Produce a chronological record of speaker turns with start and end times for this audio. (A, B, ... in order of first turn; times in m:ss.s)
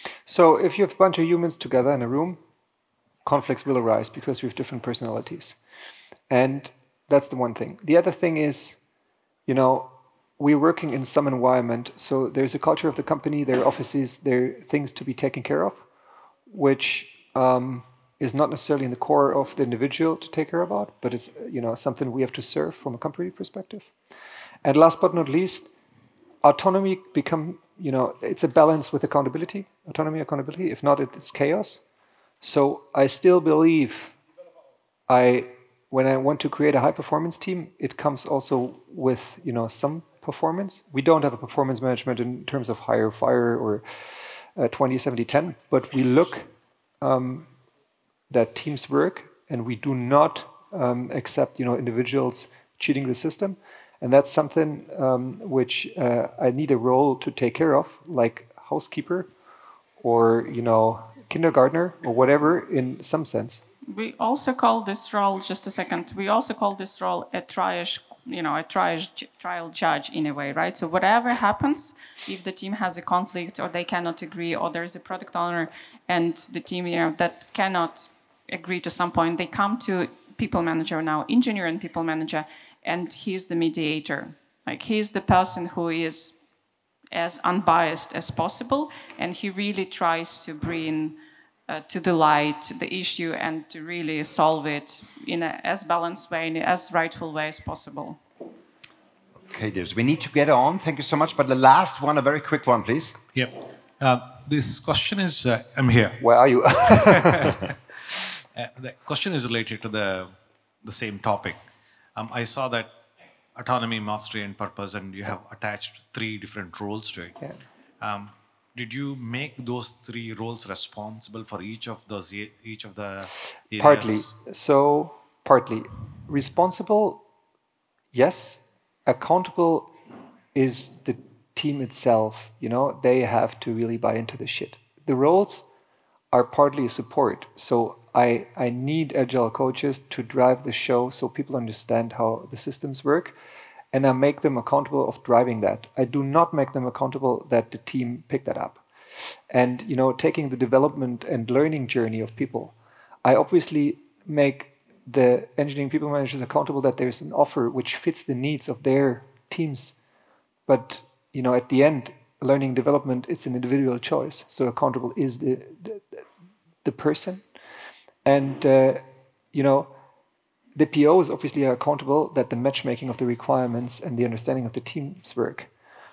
0:00.3-0:02.4 A
0:03.2-0:05.6 A
0:06.3-0:08.8 A
0:09.5-0:15.9 A
0:16.5-0:23.9 A
0:24.6-0:25.7 A
0:26.4-0:31.8 A
0:32.4-0:34.2 A
0:35.1-0:43.8 A
0:44.6-0:47.5 A
0:48.3-0:59.3 A
1:00.0-1:03.6 A
1:03.9-1:26.4 B
1:27.1-1:38.2 B
1:39.5-1:43.2 C
1:43.3-1:47.7 D
1:46.2-1:47.6 A
1:48.6-1:51.6 D
1:52.2-1:53.0 D
1:53.6-2:04.3 D
2:03.8-2:07.2 A
2:08.1-2:09.9 A
2:10.5-2:15.7 A
2:16.3-2:23.4 A
2:23.9-2:40.0 A
2:40.7-2:46.3 A
2:46.8-2:47.5 A
2:48.2-2:50.0 A
2:50.8-2:55.7 A